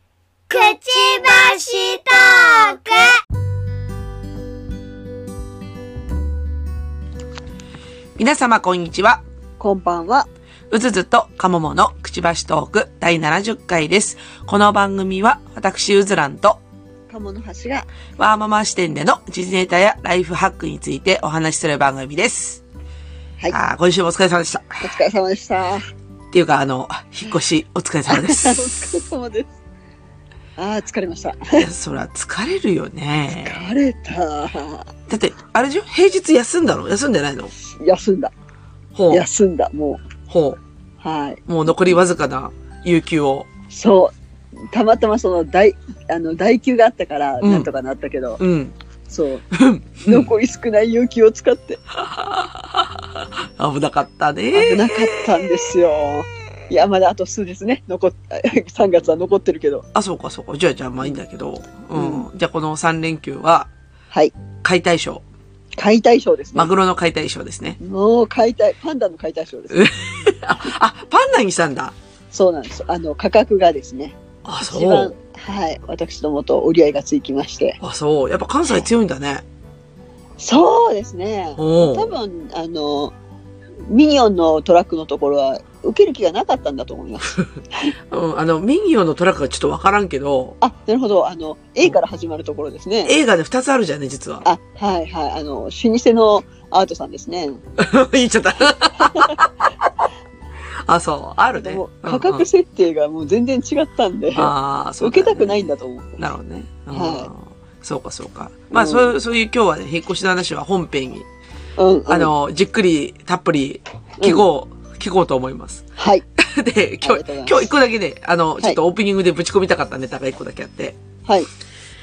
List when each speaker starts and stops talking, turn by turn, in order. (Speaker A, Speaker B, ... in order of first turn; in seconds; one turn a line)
Speaker A: 0.5-3.2
Speaker B: 8.2-9.2
Speaker C: 9.6-10.3
Speaker B: 10.7-16.6
Speaker C: 17.1-17.9
Speaker B: 18.2-22.6
Speaker B: 23.5-24.9
Speaker C: 24.8-25.8
Speaker B: 26.3-28.8
Speaker C: 28.1-29.6
Speaker C: 30.6-31.7
Speaker B: 31.6-33.6
Speaker C: 33.3-34.9
Speaker B: 35.1-37.5
Speaker C: 37.8-38.3
Speaker B: 38.9-39.2
Speaker C: 39.1-40.0
Speaker B: 40.3-40.6
Speaker C: 41.0-41.7
Speaker B: 41.5-43.5
Speaker C: 43.7-44.1
Speaker C: 44.7-48.4
Speaker B: 47.4-47.7
Speaker B: 48.4-48.8
Speaker C: 49.1-49.4
Speaker B: 49.5-50.3
Speaker C: 50.0-51.8
Speaker B: 52.0-55.7
Speaker C: 54.5-59.9
Speaker B: 59.9-63.7
Speaker C: 61.9-62.3
Speaker B: 64.6-65.2
Speaker C: 65.8-66.7
Speaker B: 66.5-67.8
Speaker C: 67.8-69.9
Speaker B: 69.7-72.0
Speaker C: 72.3-77.8
Speaker B: 74.4-75.1
Speaker B: 77.8-79.4
Speaker C: 80.4-83.1
Speaker B: 81.6-82.1
Speaker C: 83.9-87.9
Speaker B: 88.1-90.6
Speaker C: 90.6-93.1
Speaker B: 93.0-94.4
Speaker C: 94.4-97.6
Speaker B: 97.8-99.9
Speaker C: 98.9-99.4
Speaker B: 100.8-102.5
Speaker C: 101.5-106.2
Speaker B: 104.3-111.2
Speaker C: 106.9-107.3
Speaker C: 108.7-109.1
Speaker C: 111.8-112.3
Speaker B: 112.1-115.8
Speaker C: 116.0-116.2
Speaker B: 116.4-121.0
Speaker C: 117.0-117.7